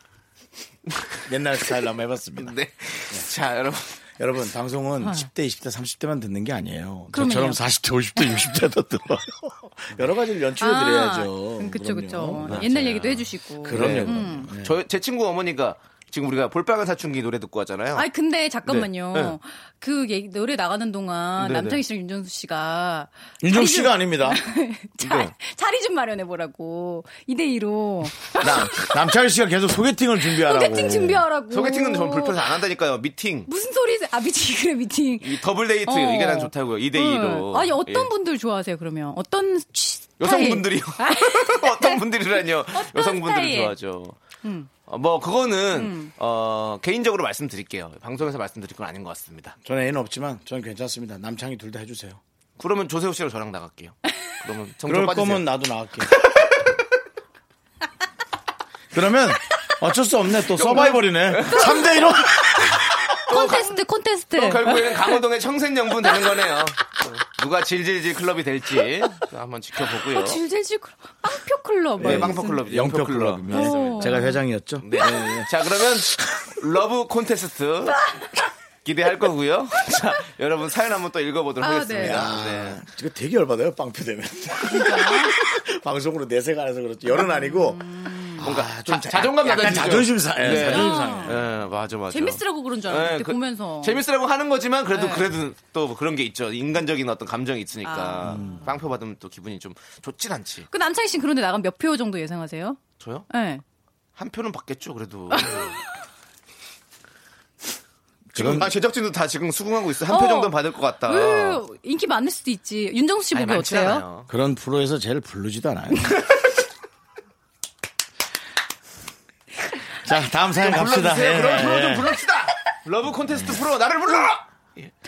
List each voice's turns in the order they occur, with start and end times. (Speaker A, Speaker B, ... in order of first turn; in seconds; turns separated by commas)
Speaker A: 0.9-1.2, Speaker B: 1.3-2.5, Speaker A: 2.4-4.0, Speaker B: 4.2-14.8, Speaker C: 5.0-5.3, Speaker C: 7.1-7.6, Speaker C: 8.2-8.4, Speaker C: 10.6-14.5, Speaker A: 12.4-12.7, Speaker A: 13.7-18.1, Speaker C: 17.9-29.1, Speaker A: 18.6-19.4, Speaker A: 21.4-21.8, Speaker B: 23.4-24.4, Speaker A: 25.0-25.3, Speaker B: 28.4-31.2, Speaker C: 30.2-32.6, Speaker A: 31.5-33.5, Speaker C: 33.5-42.0, Speaker A: 35.2-38.1, Speaker A: 40.2-44.2, Speaker C: 42.7-43.7, Speaker C: 44.4-44.7, Speaker A: 44.9-49.5, Speaker C: 45.7-46.1, Speaker B: 49.6-52.2, Speaker A: 52.6-55.4, Speaker B: 54.9-56.2, Speaker B: 58.9-63.0, Speaker A: 60.5-62.0, Speaker C: 63.2-65.2, Speaker A: 63.3-63.8, Speaker A: 64.3-70.4, Speaker C: 69.9-72.6, Speaker A: 72.0-74.3, Speaker B: 72.0-75.5, Speaker C: 73.5-74.4, Speaker A: 74.8-78.0, Speaker C: 75.0-75.4, Speaker A: 78.8-82.8, Speaker C: 81.6-82.3, Speaker B: 82.0-87.8, Speaker C: 84.6-85.4, Speaker C: 87.1-88.4, Speaker B: 88.4-91.4, Speaker A: 88.4-100.7, Speaker C: 90.4-91.4, Speaker C: 92.1-94.0, Speaker C: 94.9-95.3, Speaker C: 97.8-98.6, Speaker B: 98.3-98.6, Speaker C: 100.7-103.6, Speaker A: 103.0-103.2, Speaker A: 104.2-105.7, Speaker C: 105.3-105.8, Speaker B: 108.3-108.7, Speaker A: 108.3-111.6, Speaker C: 110.1-114.0, Speaker A: 113.3-114.3, Speaker B: 114.3-116.2, Speaker B: 120.0-122.2, Speaker A: 120.6-124.9, Speaker B: 123.3-123.6